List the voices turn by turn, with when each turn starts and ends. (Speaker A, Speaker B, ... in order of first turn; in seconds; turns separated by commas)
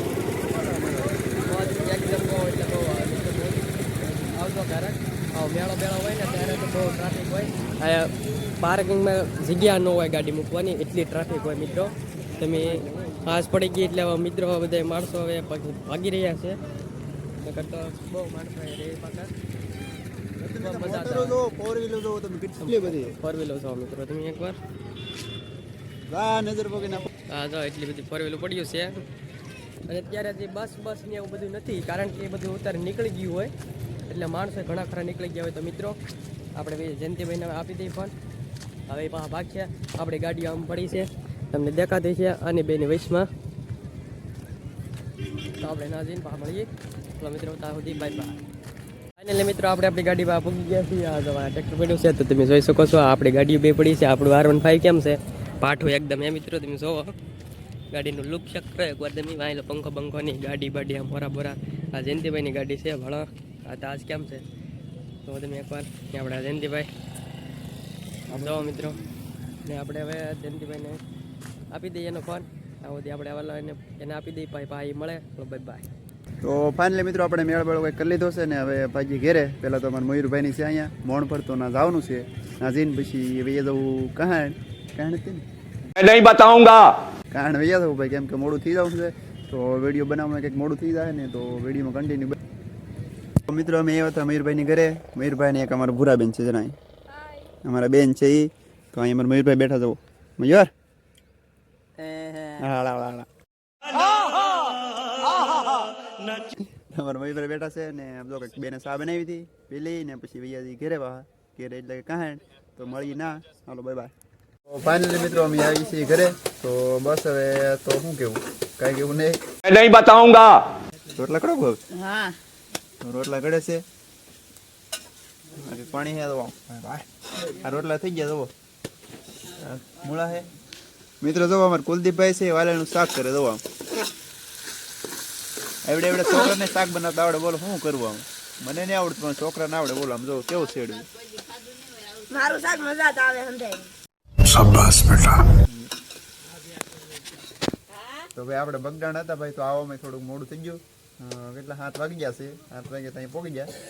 Speaker A: 0.5-1.2, Speaker B: 1.4-16.6, Speaker B: 17.4-19.3, Speaker A: 20.4-23.1, Speaker B: 20.5-21.4, Speaker B: 22.6-24.6, Speaker A: 26.1-27.1, Speaker B: 27.3-29.1, Speaker B: 29.9-33.5, Speaker B: 34.1-36.0, Speaker B: 36.6-38.1, Speaker B: 38.9-43.3, Speaker B: 45.6-48.4, Speaker B: 49.2-57.1, Speaker B: 57.9-64.4, Speaker B: 65.2-66.9, Speaker A: 68.3-68.9, Speaker B: 68.3-69.0, Speaker B: 69.6-71.0, Speaker B: 71.7-75.9, Speaker A: 76.4-85.5, Speaker C: 86.0-87.0, Speaker A: 87.3-92.4, Speaker A: 93.5-96.8, Speaker A: 97.6-100.7, Speaker B: 102.1-102.4, Speaker A: 102.5-103.3, Speaker A: 106.7-114.1, Speaker A: 114.7-119.4, Speaker C: 119.7-120.6, Speaker A: 121.2-122.2, Speaker A: 123.0-123.8, Speaker A: 125.5-128.5, Speaker A: 129.5-130.5, Speaker A: 131.2-133.6, Speaker A: 135.9-141.1, Speaker D: 142.3-143.9, Speaker D: 144.4-145.4, Speaker A: 145.6-145.9, Speaker A: 148.3-153.7